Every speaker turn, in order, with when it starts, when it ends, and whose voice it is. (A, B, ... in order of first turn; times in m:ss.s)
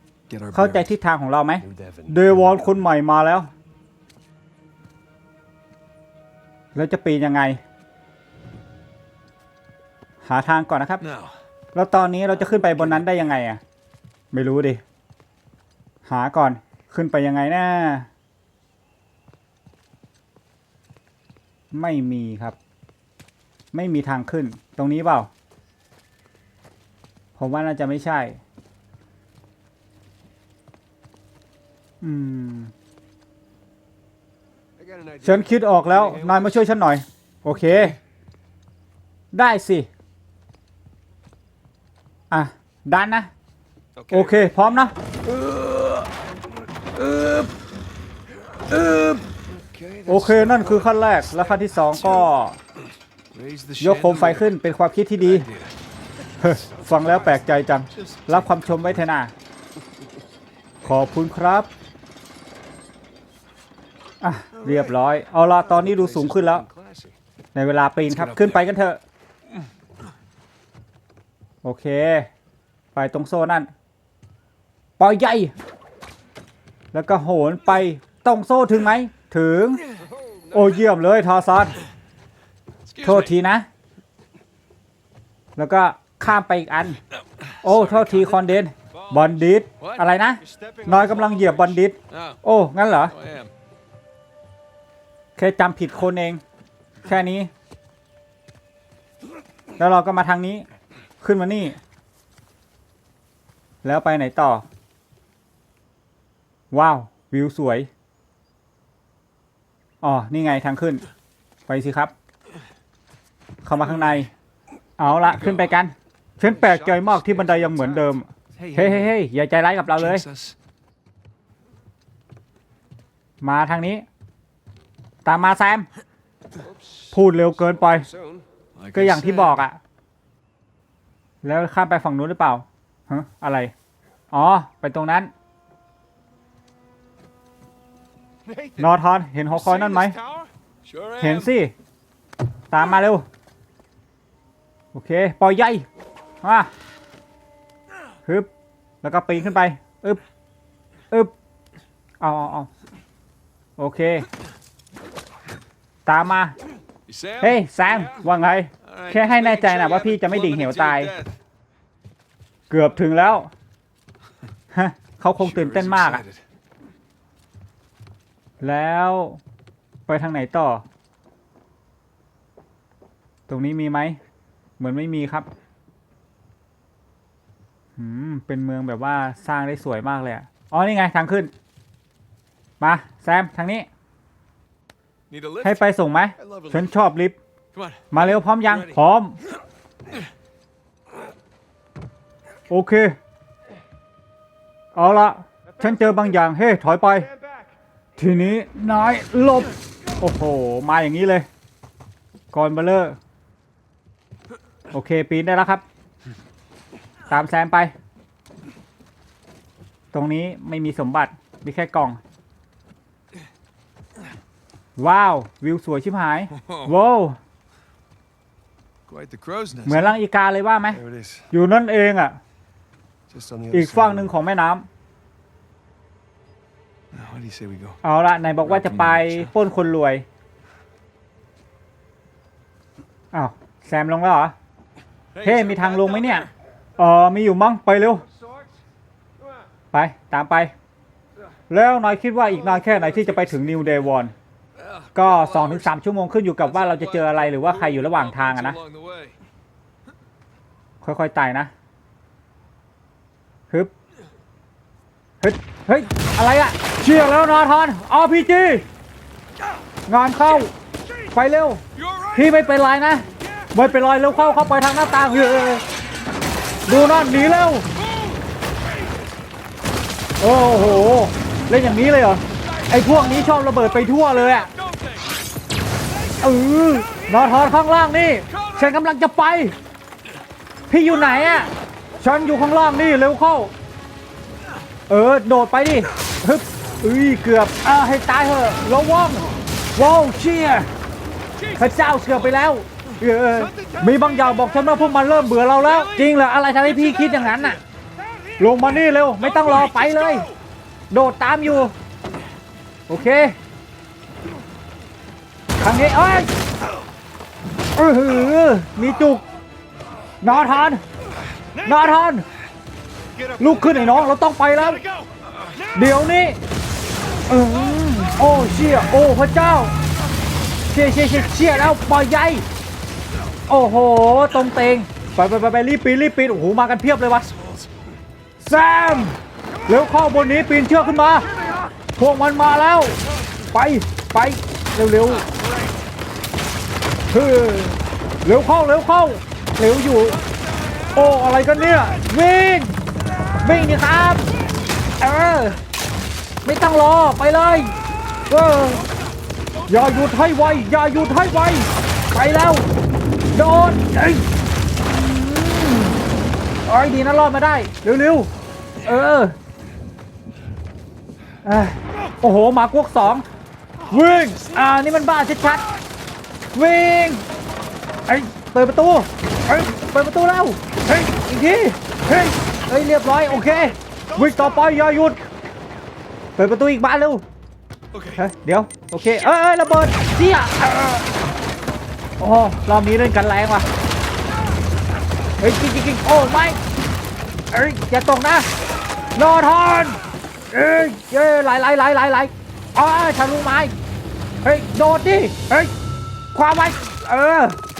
0:00.3-0:00.9 A
0:00.5-0:03.5 B
0:01.6-0:02.6 C
0:06.7-0:07.6 B
0:10.2-0:11.0 B
0:11.0-0:11.4 A
0:11.7-0:13.6 B
0:12.5-0:13.0 A
0:14.3-0:14.8 B
0:16.0-0:18.1 B
0:21.7-0:22.6 B
0:23.7-0:25.3 B
0:27.4-0:28.4 B
0:32.0-0:32.7 B
0:34.8-0:36.7 C
0:35.2-0:38.0 B
0:39.3-0:39.9 B
0:42.3-0:43.3 B
0:44.0-0:44.2 C
0:44.0-0:44.5 A
0:44.1-0:44.9 B
0:45.2-0:46.1 A
0:46.9-0:47.5 A
0:48.7-0:49.2 A
0:49.8-0:51.2 A
0:50.0-0:52.6 B
0:51.9-0:52.2 A
0:53.3-0:54.5 A
0:53.8-0:55.5 B
0:55.2-0:55.7 A
0:56.4-0:59.3 B
0:57.0-0:57.4 A
0:57.9-0:59.1 A
1:00.8-1:01.7 B
1:04.2-1:06.6 B
1:04.6-1:04.9 A
1:05.7-1:07.1 A
1:05.7-1:07.1 C
1:07.5-1:09.0 B
1:08.0-1:08.7 A
1:11.6-1:12.3 B
1:12.9-1:13.7 B
1:15.0-1:15.5 B
1:16.9-1:19.8 B
1:20.1-1:20.8 C
1:20.5-1:21.8 B
1:22.8-1:23.4 A
1:23.0-1:23.6 B
1:25.6-1:27.0 B
1:27.1-1:32.4 A
1:27.6-1:33.1 B
1:30.4-1:31.4 C
1:33.0-1:33.5 A
1:35.4-1:36.4 B
1:37.0-1:37.5 B
1:39.8-1:40.6 B
1:41.2-1:41.8 B
1:43.8-1:44.6 B
1:46.7-1:47.9 B
1:50.0-1:51.0 B
1:51.7-1:52.1 B
1:53.6-1:54.3 B
1:53.8-1:54.2 A
1:55.0-2:00.2 B
1:55.0-1:55.8 A
1:56.4-1:59.1 A
1:59.9-2:00.6 A
2:03.4-2:04.0 B
2:05.2-2:05.9 B
2:06.6-2:08.4 C
2:07.1-2:08.1 B
2:08.7-2:09.6 A
2:08.9-2:09.8 B
2:11.4-2:13.7 B
2:14.3-2:15.3 B
2:18.5-2:18.9 C
2:18.8-2:20.2 B
2:19.6-2:20.5 C
2:19.9-2:21.5 A
2:21.2-2:21.7 B
2:22.7-2:23.2 B
2:24.9-2:25.8 B
2:26.4-2:26.7 B
2:29.0-2:30.2 B
2:32.2-2:32.7 B
2:33.8-2:34.2 B
2:36.0-2:36.5 B
2:37.0-2:38.2 A
2:37.4-2:41.1 B
2:38.8-2:41.3 A
2:42.7-2:43.5 B
2:44.7-2:46.2 B
2:45.4-2:46.4 A
2:48.6-2:49.4 B
2:50.1-2:50.8 B
2:53.5-2:54.2 B
2:54.8-2:55.5 B
2:58.0-3:01.5 B
3:02.8-3:03.8 B
3:05.3-3:06.9 A
3:05.6-3:07.4 B
3:07.7-3:09.0 A
3:08.1-3:09.4 B
3:12.7-3:13.2 B
3:14.9-3:17.3 B
3:18.2-3:21.5 B
3:22.5-3:23.2 B
3:24.9-3:25.8 B
3:27.3-3:27.9 B
3:30.1-3:32.2 B
3:35.0-3:37.4 B
3:36.5-3:36.9 A
3:39.0-3:40.2 A
3:39.8-3:41.0 B
3:40.9-3:41.5 C
3:41.5-3:42.4 B
3:43.3-3:44.4 C
3:43.7-3:44.8 B
3:47.1-3:48.0 A
3:48.0-3:50.2 B
3:48.6-3:49.5 A
3:53.3-3:54.5 B
3:55.3-3:56.5 A
3:55.4-3:58.2 B
3:59.9-4:00.7 B
4:01.7-4:04.3 B
4:02.6-4:03.9 A
4:04.8-4:05.9 A
4:05.1-4:08.8 B
4:06.6-4:09.4 A
4:11.0-4:11.7 B
4:15.4-4:18.8 B
4:20.1-4:20.7 B
4:21.3-4:21.8 B
4:22.0-4:22.5 A
4:22.3-4:25.8 B
4:26.9-4:27.9 B
4:30.4-4:34.7 B
4:34.8-4:35.2 A
4:36.4-4:39.7 B
4:38.6-4:38.9 A
4:40.9-4:41.7 B
4:42.2-4:43.7 B
4:45.1-4:50.9 B
4:51.6-4:52.6 A
4:51.7-4:57.8 B
4:53.6-4:54.6 A
4:55.7-4:57.7 A
4:58.6-5:00.5 B
4:58.8-5:00.5 A
5:01.1-5:01.9 B
5:03.1-5:03.6 B
5:05.8-5:06.5 B
5:08.0-5:09.4 B
5:10.4-5:11.0 B
5:11.8-5:12.4 B
5:13.6-5:15.0 B
5:13.7-5:14.3 A
5:15.9-5:16.6 B
5:17.5-5:19.9 B
5:20.9-5:22.6 B
5:23.7-5:27.5 B
5:27.5-5:27.9 A
5:28.6-5:31.5 B
5:32.2-5:33.2 B
5:33.7-5:35.4 B
5:37.3-5:40.4 B
5:41.1-5:42.9 B
5:43.6-5:44.4 B
5:45.2-5:45.8 B
5:46.6-5:47.9 B
5:48.5-5:49.0 B
5:49.9-5:52.8 B
5:53.5-5:54.4 B
5:55.0-5:56.2 B
5:56.8-5:58.5 B
5:59.0-5:59.5 B
6:01.6-6:03.4 B
6:04.1-6:05.8 B
6:04.2-6:04.8 A
6:06.7-6:07.4 B
6:08.3-6:15.4 B
6:14.3-6:14.9 A
6:16.6-6:17.4 B
6:18.1-6:18.4 A
6:18.4-6:21.2 B
6:22.4-6:23.9 B
6:25.6-6:26.8 B
6:27.7-6:28.7 B
6:29.4-6:30.2 B
6:30.7-6:33.9 B
6:34.6-6:35.9 B
6:36.5-6:37.8 B